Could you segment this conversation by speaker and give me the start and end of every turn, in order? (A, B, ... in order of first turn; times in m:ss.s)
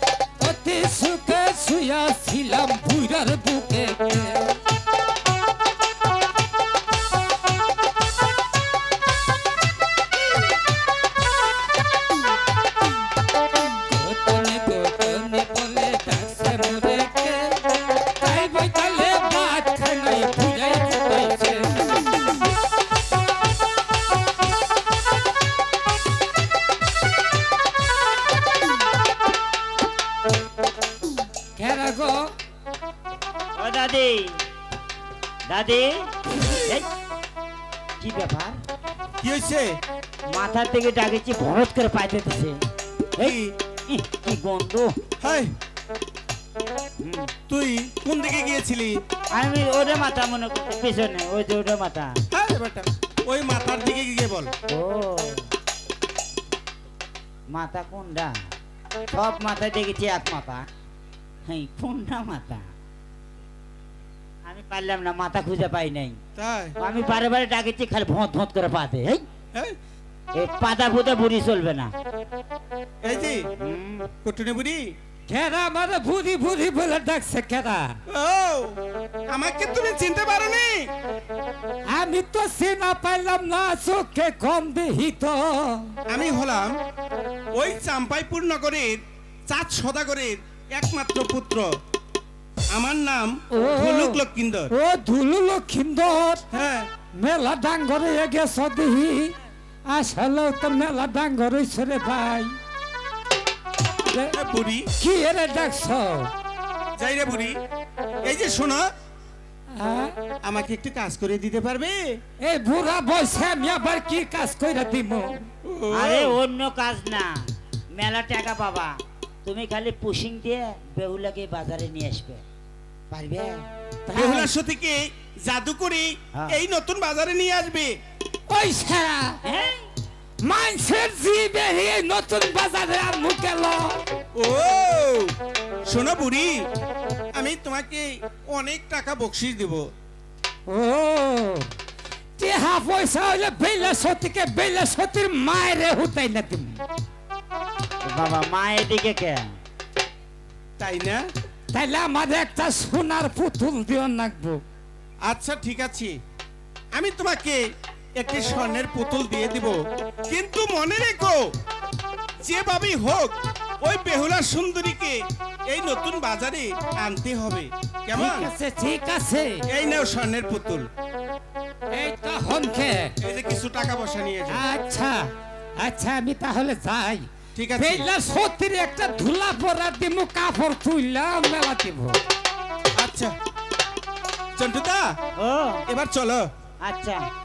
0:00.4-0:04.6 A
0:13.8-0:17.6 A
0:18.2-0:22.3 A
0:31.6-0:32.3 A
0:33.6-0:34.4 B
0:35.5-0:36.8 B
0:38.0-0:38.6 B
0:39.2-0:39.7 C
0:40.3-0:42.6 B
0:43.2-0:43.5 C
0:43.9-0:44.9 B
0:45.2-0:45.5 C
0:47.0-0:47.3 B
0:47.5-0:49.0 C
0:49.3-0:52.2 B
0:52.3-0:54.5 C
0:54.7-0:55.5 B
0:57.5-0:58.3 B
0:59.1-1:00.6 B
1:01.5-1:02.7 B
1:04.4-1:06.2 B
1:06.4-1:06.8 C
1:06.8-1:09.2 B
1:10.4-1:11.9 B
1:13.0-1:13.5 C
1:13.6-1:14.1 B
1:14.2-1:14.9 C
1:15.3-1:18.0 A
1:18.1-1:18.7 C
1:19.3-1:20.8 C
1:21.9-1:25.9 A
1:26.1-1:26.8 C
1:27.5-1:31.7 C
1:32.7-1:34.7 C
1:33.5-1:34.2 A
1:34.7-1:36.4 A
1:36.5-1:36.9 C
1:37.2-1:39.3 A
1:39.9-1:42.5 A
1:44.0-1:44.4 A
1:44.3-1:44.9 C
1:45.0-1:46.3 A
1:47.0-1:47.6 C
1:48.2-1:48.9 C
1:49.7-1:50.1 A
1:50.4-1:52.0 C
1:52.4-1:55.5 A
1:55.6-1:56.4 C
1:55.9-1:57.3 B
1:58.0-1:58.9 B
1:59.4-2:02.4 B
2:03.1-2:03.6 B
2:04.1-2:04.5 A
2:04.1-2:07.9 C
2:08.5-2:09.4 A
2:09.4-2:09.8 B
2:10.4-2:14.0 A
2:14.4-2:15.3 C
2:15.9-2:16.6 C
2:17.3-2:19.8 C
2:20.7-2:21.7 A
2:22.4-2:26.8 A
2:28.1-2:29.5 B
2:30.8-2:31.2 C
2:31.7-2:34.6 A
2:35.3-2:36.1 C
2:36.9-2:37.6 C
2:38.2-2:39.8 C
2:40.3-2:41.4 C
2:42.4-2:48.5 C
2:48.1-2:49.6 A
2:49.7-2:50.9 C
2:51.9-2:53.1 A
2:53.2-2:54.6 C
2:54.5-2:55.2 A
2:55.8-2:57.2 A
2:57.5-2:58.1 C
2:57.8-3:02.2 A
3:03.0-3:03.3 C
3:04.6-3:05.1 C
3:05.4-3:05.8 B
3:05.9-3:06.4 C
3:06.8-3:07.2 B